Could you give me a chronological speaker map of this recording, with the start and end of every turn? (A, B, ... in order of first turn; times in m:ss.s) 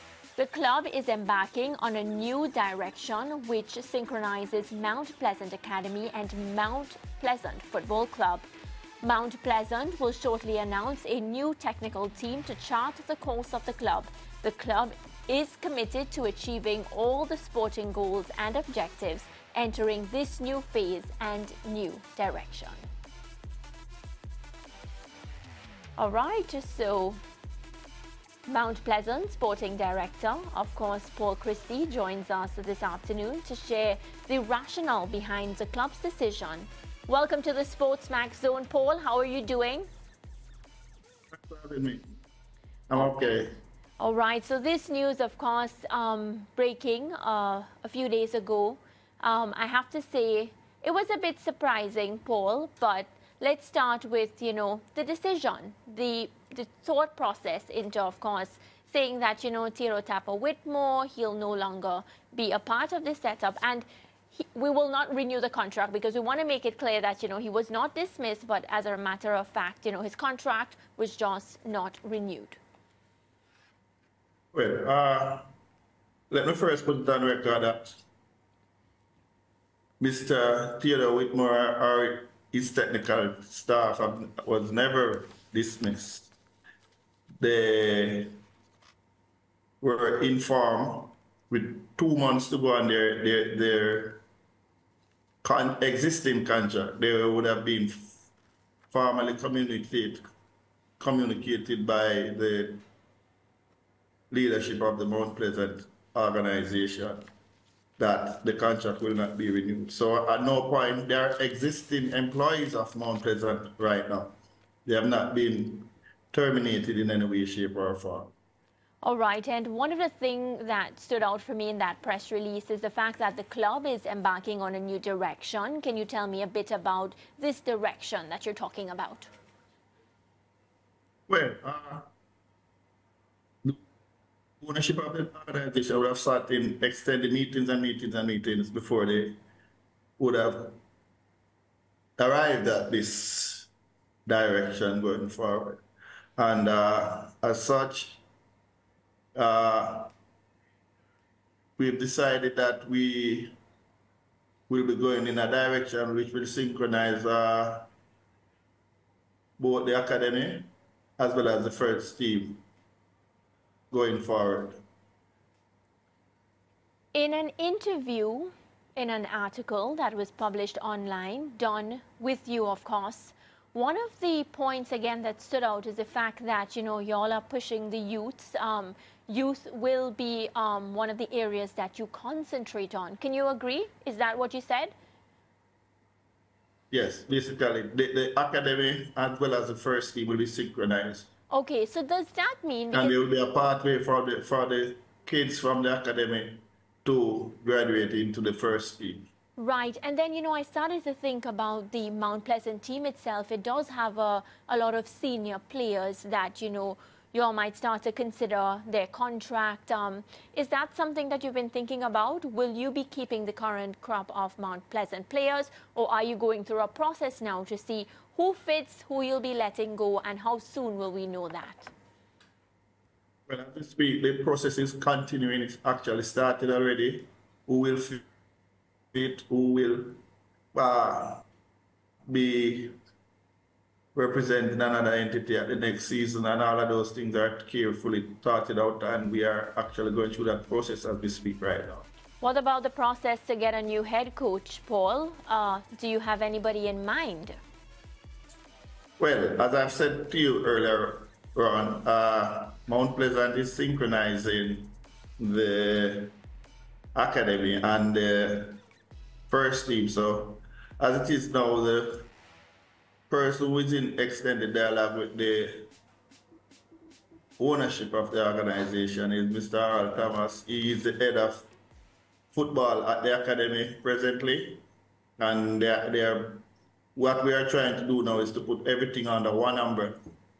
0:00.4-0:08.5 A
0:09.0-0:22.8 A
0:26.0-0:27.2 A
0:28.5-0:39.9 A
0:41.3-0:42.2 B
0:42.9-0:43.5 B
0:44.0-1:12.6 A
1:14.5-1:15.5 B
1:16.3-1:18.0 B
1:20.0-1:26.3 B
1:27.4-1:28.4 B
1:29.8-1:34.2 B
1:35.4-1:38.2 B
1:38.9-1:40.2 B
1:41.0-1:42.8 B
1:44.3-1:47.3 B
1:48.0-1:58.3 B
1:59.0-2:09.3 A
2:11.3-2:12.1 B
2:14.6-2:19.4 B
2:20.2-2:20.8 B
2:22.2-2:23.7 B
2:24.2-2:25.8 B
2:26.4-2:28.2 B
2:29.3-2:30.1 B
2:31.8-2:33.6 B
2:34.7-2:37.9 B
2:39.6-2:42.6 B
2:43.9-2:44.8 B
2:47.1-3:04.9 A
3:06.9-3:11.3 B
3:11.5-3:13.2 A
3:12.9-3:19.3 B
3:19.6-3:41.9 A
3:43.5-3:48.2 B
3:49.1-3:50.2 B
3:50.7-3:51.4 B
3:52.3-3:53.0 B
3:54.2-4:02.1 B
4:02.4-4:07.6 A
4:09.2-4:16.4 B
4:17.1-4:18.8 B
4:19.5-4:22.3 B
4:23.3-4:25.9 B
4:27.6-4:31.7 B
4:32.5-4:34.8 B
4:35.4-4:40.2 B